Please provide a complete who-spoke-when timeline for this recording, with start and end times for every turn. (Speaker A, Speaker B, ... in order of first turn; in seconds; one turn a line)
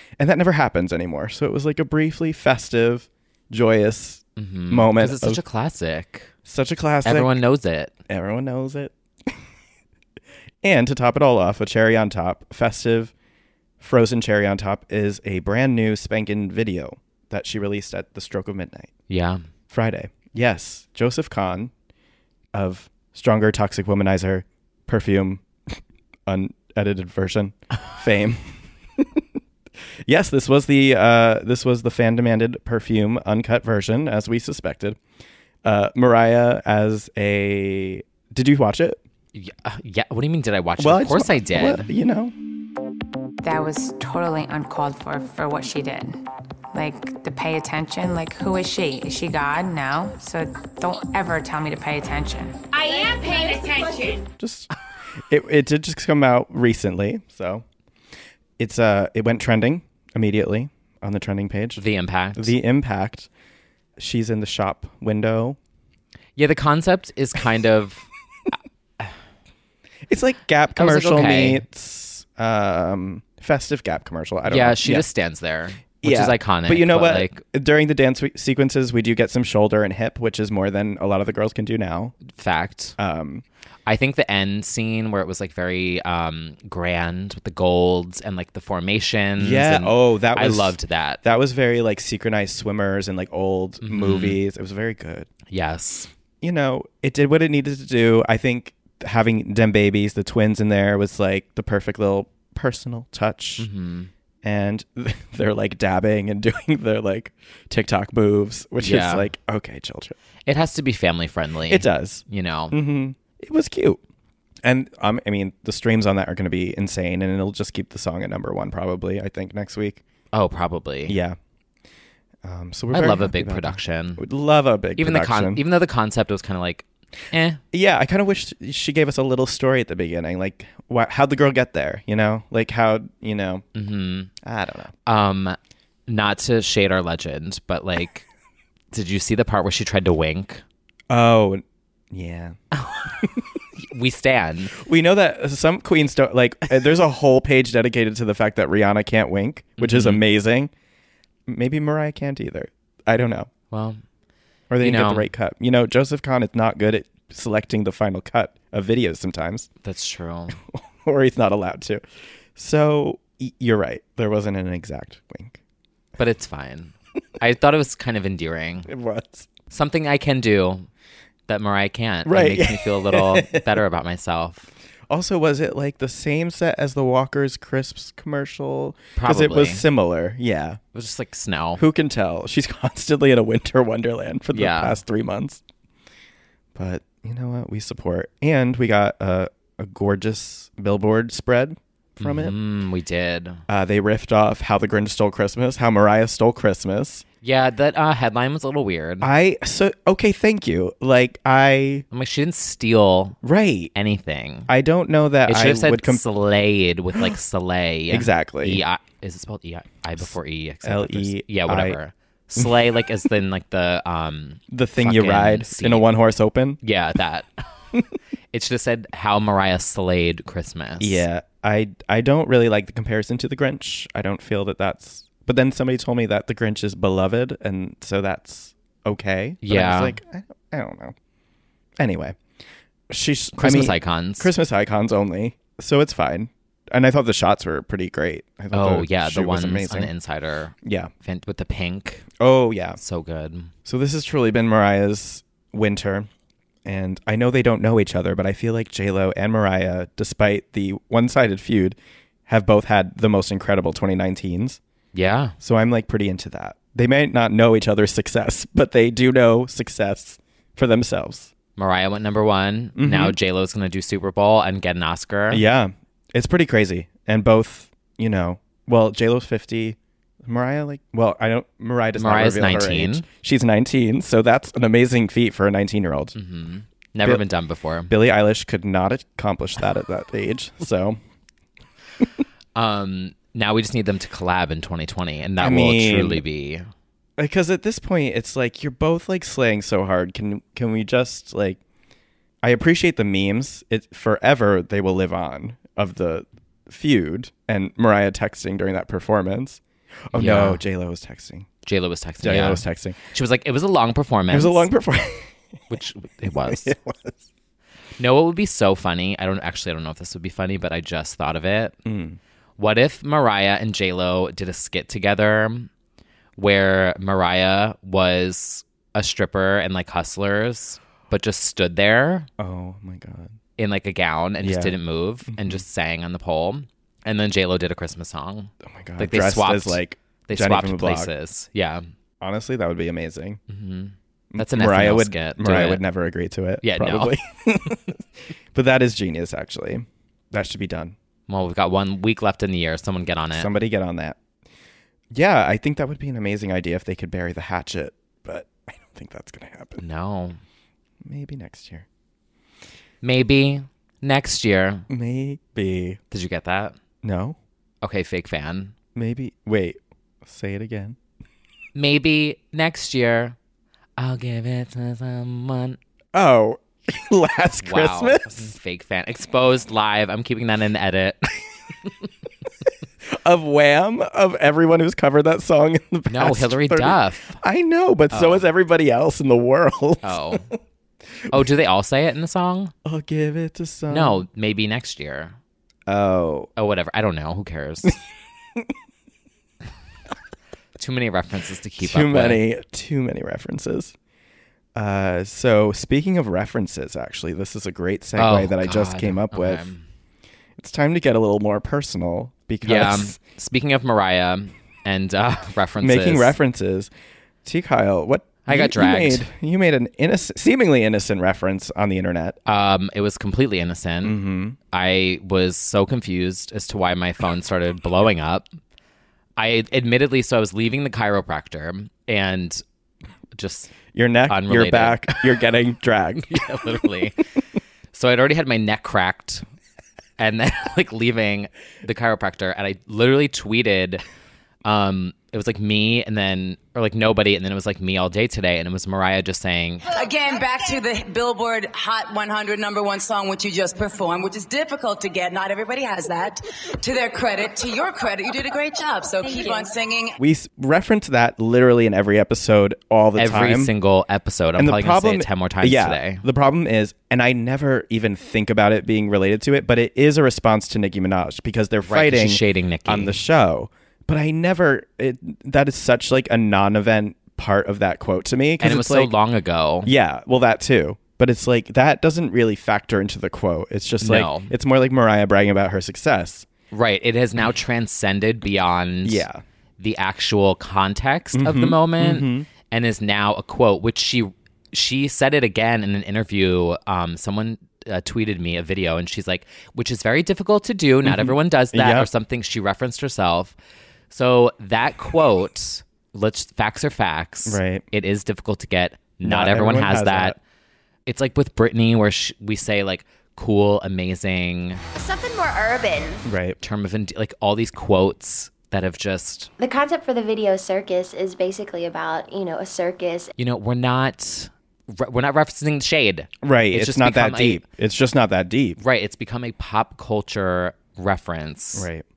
Speaker A: 0.2-5.4
Speaker B: 4.4-6.3
Speaker A: 6.5-7.4
Speaker B: 7.0-7.9
Speaker A: 8.1-9.3
Speaker A: 10.6-13.1
Speaker A: 13.8-18.9
Speaker B: 19.1-19.4
Speaker A: 19.7-21.7
Speaker A: 22.5-29.2
Speaker A: 30.1-35.0
Speaker A: 35.6-39.0
Speaker B: 39.3-41.9
Speaker A: 40.8-42.3
Speaker C: 43.4-46.2
Speaker C: 46.7-52.6
Speaker D: 53.1-53.8
Speaker A: 54.4-54.7
Speaker A: 55.3-57.6
Speaker A: 58.6-61.8
Speaker B: 61.8-62.5
Speaker A: 62.3-63.3
Speaker A: 64.0-65.6
Speaker B: 66.4-68.1
Speaker A: 70.1-75.0
Speaker B: 70.7-71.6
Speaker B: 74.5-77.4
Speaker A: 76.0-82.2
Speaker B: 82.2-83.0
Speaker A: 83.0-83.4
Speaker B: 83.8-91.2
Speaker A: 89.4-95.3
Speaker B: 93.8-94.4
Speaker B: 95.5-96.1
Speaker A: 96.4-103.7
Speaker B: 103.6-104.1
Speaker A: 104.4-110.2
Speaker B: 108.8-109.3
Speaker B: 110.5-112.8
Speaker A: 111.7-114.0
Speaker A: 114.6-120.0
Speaker B: 120.3-121.2
Speaker A: 121.0-121.4
Speaker A: 122.4-125.6
Speaker B: 122.9-124.2
Speaker B: 125.0-127.6
Speaker A: 127.7-133.6
Speaker B: 133.7-134.3
Speaker A: 134.4-134.9
Speaker B: 135.1-138.2
Speaker B: 138.9-140.6
Speaker A: 141.1-142.6
Speaker B: 142.8-143.0
Speaker B: 143.8-144.7
Speaker A: 144.8-150.7
Speaker B: 149.8-150.2
Speaker A: 151.5-153.5
Speaker B: 153.7-154.0
Speaker A: 154.7-159.7
Speaker B: 154.8-155.3
Speaker B: 159.8-160.6
Speaker A: 160.7-162.0
Speaker A: 162.6-165.6
Speaker B: 166.2-168.9
Speaker A: 168.9-169.5
Speaker B: 169.7-170.9
Speaker B: 171.5-174.7
Speaker A: 172.2-173.7
Speaker A: 175.1-180.8
Speaker B: 179.2-179.8
Speaker B: 180.9-181.8
Speaker A: 181.8-185.6
Speaker B: 184.5-185.0
Speaker A: 186.7-192.5
Speaker B: 192.2-193.6
Speaker A: 193.7-197.2
Speaker B: 197.4-199.3
Speaker A: 199.2-202.0
Speaker B: 202.1-203.4
Speaker A: 203.4-203.9
Speaker B: 203.9-204.7
Speaker A: 204.7-206.2
Speaker B: 205.5-216.1
Speaker A: 208.1-208.8
Speaker A: 210.8-212.0
Speaker A: 214.7-216.8
Speaker B: 216.8-217.6
Speaker B: 218.5-221.2
Speaker A: 221.0-231.1
Speaker B: 229.6-230.2
Speaker A: 232.0-232.4
Speaker A: 233.1-240.1
Speaker B: 233.6-234.5
Speaker B: 238.7-242.3
Speaker A: 240.8-241.1
Speaker A: 242.4-243.0
Speaker B: 243.0-243.7
Speaker A: 243.8-246.3
Speaker A: 246.8-254.8
Speaker B: 255.1-255.5
Speaker A: 255.6-261.5
Speaker B: 261.8-265.6
Speaker A: 262.9-263.4
Speaker A: 265.5-276.3
Speaker B: 272.2-273.2
Speaker B: 276.3-278.1
Speaker A: 278.1-281.2
Speaker B: 282.7-286.9
Speaker A: 285.6-286.4
Speaker A: 287.4-291.8
Speaker A: 292.6-301.7
Speaker B: 300.3-300.8
Speaker B: 301.8-304.9
Speaker A: 302.4-303.2
Speaker A: 304.5-305.5
Speaker B: 305.9-306.9
Speaker A: 306.6-307.4
Speaker B: 308.2-311.9
Speaker A: 312.0-312.4
Speaker B: 312.8-315.9
Speaker B: 316.6-322.5
Speaker A: 322.6-323.5
Speaker B: 323.8-332.1
Speaker A: 324.6-325.8
Speaker A: 328.8-331.3
Speaker A: 332.4-333.6
Speaker B: 333.7-336.0
Speaker A: 334.5-338.2
Speaker B: 336.8-337.4
Speaker A: 338.7-341.1
Speaker B: 341.5-343.7
Speaker A: 343.5-344.4
Speaker A: 345.3-350.0
Speaker B: 350.0-350.6
Speaker A: 351.2-352.1
Speaker B: 353.2-355.1
Speaker A: 355.1-356.2
Speaker B: 356.3-356.9
Speaker A: 357.2-357.6
Speaker B: 358.0-358.9
Speaker A: 359.1-361.2
Speaker B: 361.9-363.6
Speaker B: 364.2-366.0
Speaker A: 366.3-368.7
Speaker B: 367.8-371.5
Speaker A: 373.2-380.7
Speaker B: 376.3-377.6
Speaker B: 378.3-378.6
Speaker B: 380.2-380.7
Speaker B: 381.5-382.9
Speaker A: 383.0-384.4
Speaker B: 384.1-385.5
Speaker A: 386.1-386.7
Speaker B: 386.8-388.2
Speaker B: 391.0-392.6
Speaker A: 392.0-394.1
Speaker A: 394.9-399.9
Speaker B: 398.4-400.0
Speaker A: 400.8-403.4
Speaker B: 402.8-406.5
Speaker A: 406.0-407.1
Speaker A: 407.6-412.6
Speaker B: 408.6-409.5
Speaker B: 412.6-414.4
Speaker A: 414.2-414.8
Speaker B: 414.9-418.7
Speaker B: 419.6-422.8
Speaker B: 423.5-423.9
Speaker A: 424.1-426.6
Speaker B: 424.5-425.6
Speaker B: 426.4-427.4
Speaker B: 428.1-429.6
Speaker B: 430.4-434.2
Speaker B: 434.8-440.1
Speaker D: 440.1-450.4
Speaker E: 449.4-449.8
Speaker A: 450.4-453.9
Speaker B: 453.4-456.4
Speaker A: 454.8-469.3
Speaker B: 462.0-463.4
Speaker B: 468.8-470.1
Speaker A: 470.0-476.7
Speaker B: 474.2-474.7
Speaker B: 476.9-479.4
Speaker A: 479.2-479.6
Speaker B: 480.0-493.7
Speaker A: 481.5-482.7
Speaker A: 491.2-492.3
Speaker B: 494.3-500.6
Speaker A: 497.6-498.0
Speaker A: 499.4-500.6
Speaker B: 501.2-505.0
Speaker E: 505.1-506.4
Speaker A: 506.4-506.8
Speaker B: 506.8-509.7
Speaker E: 509.8-513.5
Speaker B: 513.6-517.8
Speaker A: 516.6-519.0
Speaker B: 519.0-522.1
Speaker A: 521.9-522.2